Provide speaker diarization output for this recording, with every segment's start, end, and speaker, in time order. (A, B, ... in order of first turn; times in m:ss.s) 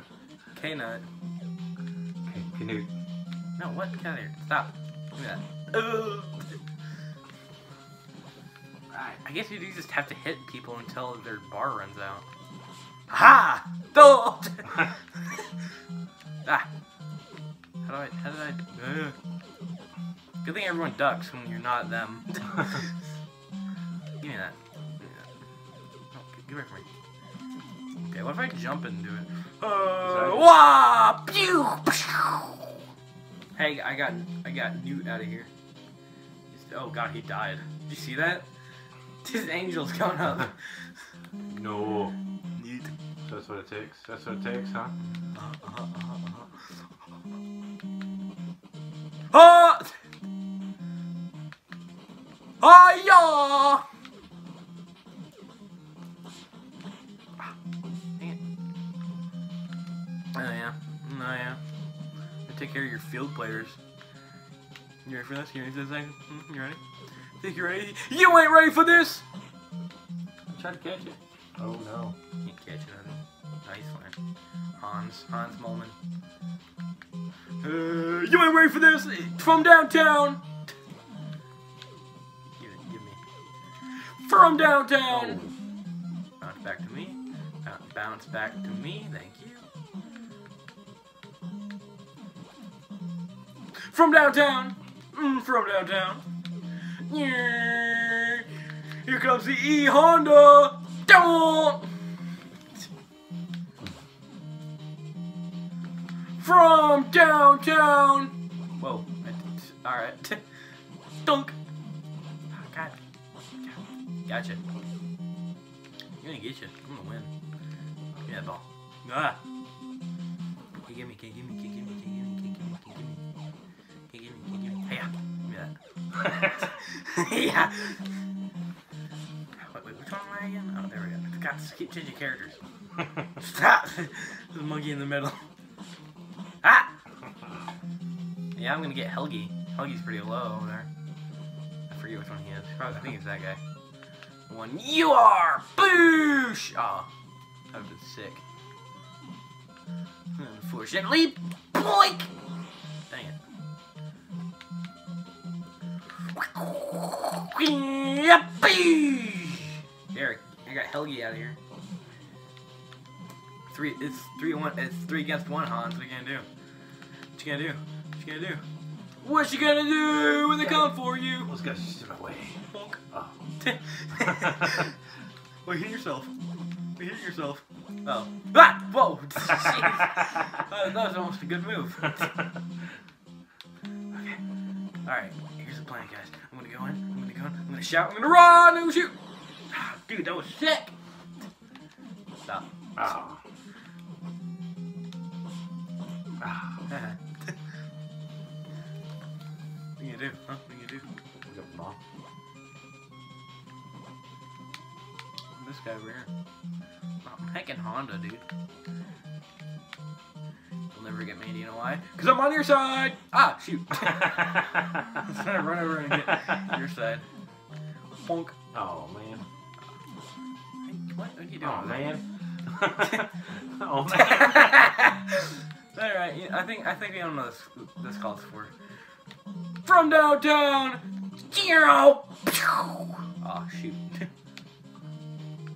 0:00.5-0:01.0 A
0:02.2-0:02.9 B
0:03.6-0:06.5 A
0:08.9-0:09.2 B
0:09.2-0:12.2 A
0:13.1-0:15.4 A
0:17.8-0:19.2 A
0:20.4-0:22.9 A
0:24.2-0:25.3 A
0:26.1-0:26.8 A
0:28.1-0:32.8 A
0:30.0-0:30.6 B
0:33.6-0:35.5 A
0:36.5-0:38.4 A
0:39.2-0:40.6 A
0:41.5-0:42.1 B
0:42.6-0:42.9 A
0:43.2-0:44.9 B
0:45.3-0:46.6 A
0:49.3-0:50.0 A
0:52.6-0:53.8 A
1:00.3-1:01.6 A
1:02.5-1:03.8 A
1:05.0-1:06.8 A
1:07.4-1:09.2 A
1:10.5-1:12.1 B
1:12.4-1:14.1 A
1:14.8-1:15.9 A
1:17.6-1:20.4 A
1:22.6-1:23.2 A
1:24.2-1:25.4 A
1:25.1-1:25.5 B
1:26.4-1:29.6 A
1:33.8-1:36.2 A
1:37.1-1:38.4 A
1:39.0-1:41.9 A
1:46.4-1:50.4 A
1:51.2-1:51.6 A
1:52.5-1:53.0 A
1:54.3-1:54.6 A
1:56.2-1:57.3 A
1:58.2-1:59.4 A
2:00.9-2:03.2 A
2:04.1-2:05.7 A
2:06.2-2:08.0 A
2:09.6-2:12.6 A
2:13.4-2:15.4 A
2:16.6-2:16.9 A
2:18.6-2:20.9 A
2:21.9-2:23.6 A
2:24.5-2:27.1 A
2:27.7-2:28.4 A
2:30.4-2:32.3 A
2:33.1-2:33.4 A
2:36.3-2:41.6 A
2:43.7-2:46.4 A
2:47.4-2:48.6 A
2:49.2-2:51.5 A
2:50.6-2:50.9 B
2:51.4-2:52.6 B
2:52.7-2:53.0 A
2:53.1-2:53.4 B
2:53.6-2:54.9 A
2:54.2-2:54.7 B
2:55.6-2:56.3 A
2:57.0-3:02.4 A
3:04.1-3:04.4 A
3:05.0-3:09.1 A
3:09.7-3:10.9 A
3:12.4-3:13.2 A
3:13.0-3:13.4 B
3:16.4-3:16.8 B
3:16.9-3:17.6 A
3:20.0-3:21.0 A
3:21.5-3:22.0 B
3:25.6-3:26.3 A
3:27.2-3:28.4 A
3:30.9-3:37.2 A
3:34.4-3:35.2 B
3:38.2-3:38.5 A
3:38.7-3:39.4 B
3:40.8-3:42.1 A
3:41.6-3:45.1 B
3:44.1-3:48.7 A
3:49.8-3:54.3 A